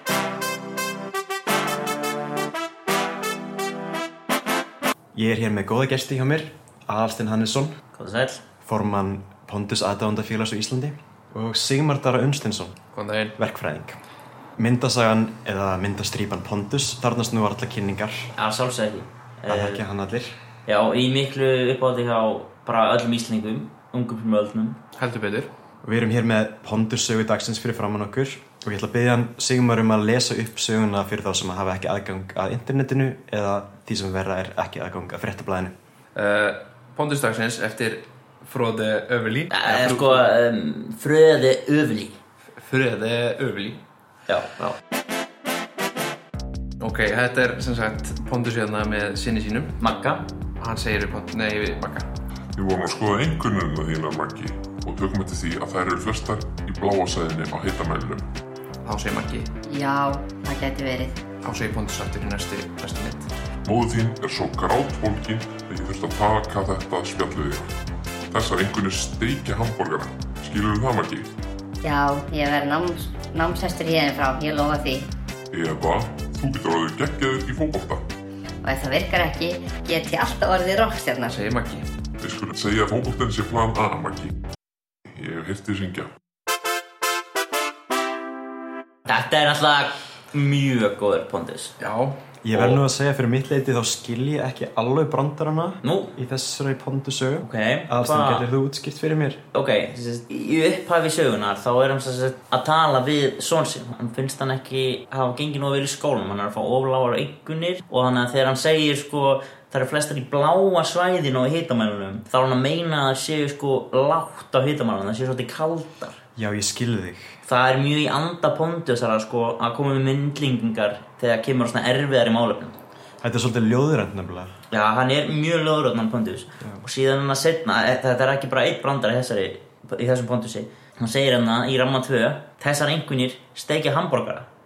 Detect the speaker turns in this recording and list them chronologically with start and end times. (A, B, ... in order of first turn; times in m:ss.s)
0:05.2-0:07.8 A
0:07.9-0:08.4 B
0:08.6-0:12.8 A
0:12.9-0:13.4 C
0:13.4-0:14.0 A
0:14.6-0:18.3 A
0:18.3-0:19.8 B
0:19.5-0:20.3 A
0:20.7-0:24.8 B
0:25.0-0:25.5 C
0:25.8-0:35.7 A
0:36.2-0:40.2 C
0:39.5-0:42.2 B
0:42.6-0:43.8 C
0:44.3-0:44.8 B
0:46.8-0:49.8 C
0:49.8-0:50.2 B
0:50.6-0:52.1 C
0:52.6-0:58.3 D
0:58.8-0:59.5 C
0:59.7-1:01.2 E
1:01.4-1:03.3 C
1:03.6-1:07.7 D
1:08.3-1:11.3 D
1:11.8-1:15.1 E
1:15.5-1:18.0 D
1:18.6-1:21.3 E
1:21.3-1:21.8 C
1:22.2-1:24.3 D
1:25.1-1:26.1 D
1:29.1-1:31.7 B
1:31.8-1:32.8 C
1:32.4-1:39.4 A
1:35.8-1:36.2 B
1:37.4-1:38.4 B
1:39.5-1:56.2 B
1:56.4-1:57.3 A
1:57.4-2:02.8 B
2:03.2-2:04.5 A
2:04.7-2:14.5 B